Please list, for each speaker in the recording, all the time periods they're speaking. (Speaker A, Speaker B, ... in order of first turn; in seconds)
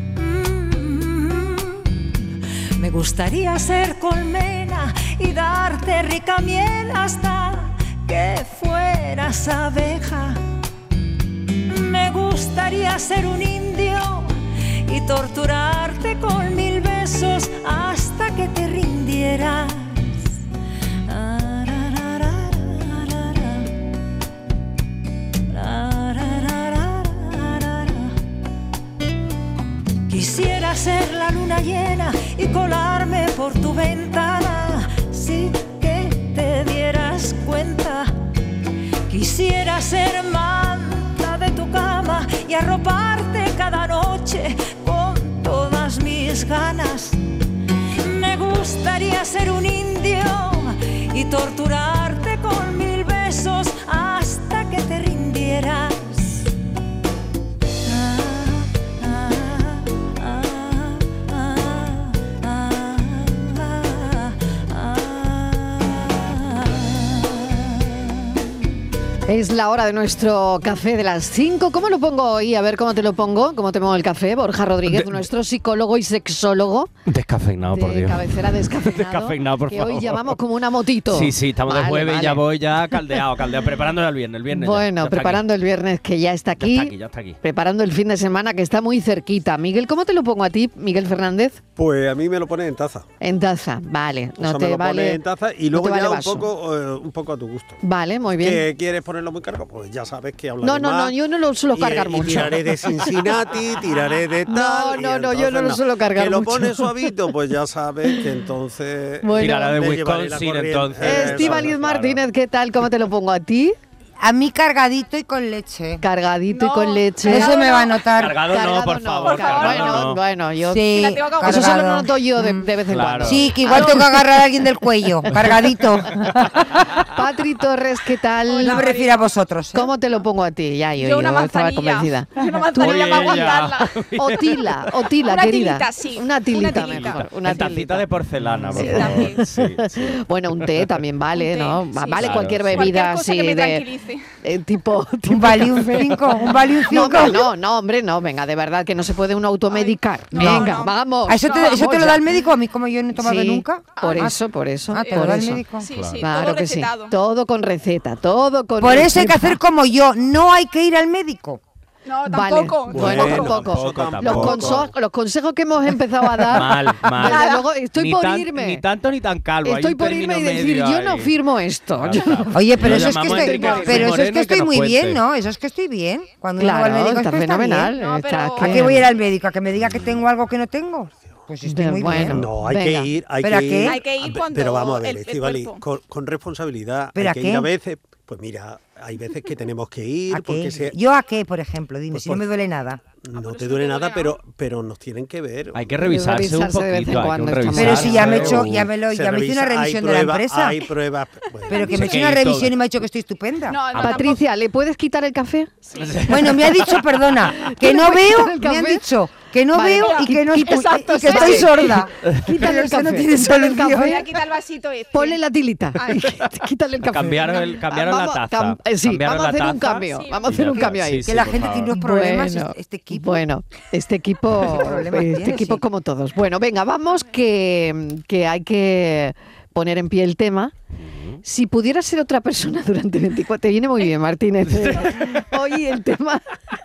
Speaker A: 0.1-1.9, 2.8-10.4, 11.7-20.4, 21.1-23.7, 25.5-28.1, 30.1-38.1, 39.1-47.2, 48.0-56.5, 57.8-68.1
Speaker B: 69.3-76.9, 77.7-82.4, 84.5-91.6, 93.2-95.2, 95.7-96.5, 97.8-98.6, 100.6-103.1, 104.5-107.1, 109.2-109.8, 111.0-113.8, 116.0-117.7, 118.5-124.0, 127.1-128.9, 129.7-133.4, 134.2-138.1, 138.7-143.8, 144.4-152.2, 153.2-155.6, 156.2-159.6, 162.3-168.8, 169.6-172.5, 173.4-174.0, 176.6-179.0, 181.6-183.1, 196.0-198.5, 204.0-205.7, 207.6-209.0, 209.7-211.9, 212.5-214.2, 215.1-221.3, 221.9-230.7, 231.4-236.4
Speaker C: 74.9-75.2, 77.1-80.3, 81.1-85.4, 86.6-87.4, 109.3-112.2, 118.2-120.2, 122.9-123.5, 125.3-125.6, 132.6-134.7, 136.7-140.2, 142.2-142.9, 155.9-156.2, 162.9-164.8, 166.5-171.3, 172.0-175.2, 179.8-180.2, 195.7-198.8, 201.8-202.8, 206.1-206.6, 217.1-221.9, 231.0-231.4, 234.7-235.4
Speaker D: 91.8-93.1, 94.4-97.8, 98.4-101.1, 101.7-112.0, 162.9-164.9, 182.2-191.0, 192.1-192.5, 193.2-195.9, 198.1-201.9
Speaker E: 114.2-116.0, 117.2-118.4, 120.6-122.7, 123.2-126.8, 128.6-129.9, 145.2-147.5, 150.3-154.4, 154.9-155.9, 158.8-161.6, 172.5-177.9, 178.6-182.4, 183.4-184.0, 187.1-187.7, 190.3-193.0, 197.7-200.8, 201.7-203.9, 206.3-214.2, 221.2-223.4, 224.5-225.8
Speaker F: 116.5-118.0, 119.2-120.0, 120.9-121.8, 123.6-124.2, 128.5-129.2, 131.0-133.9, 135.2-137.2, 138.7-139.4, 141.3-144.2, 149.7-152.0, 154.0-154.3, 155.8-157.1, 162.1-163.6, 167.2-167.6, 173.4-174.1, 177.9-179.0, 183.8-185.8, 193.3-194.4, 201.7-202.1, 203.7-204.4, 205.9-206.2, 209.8-212.0, 213.9-215.4, 216.0-216.3, 220.1-220.8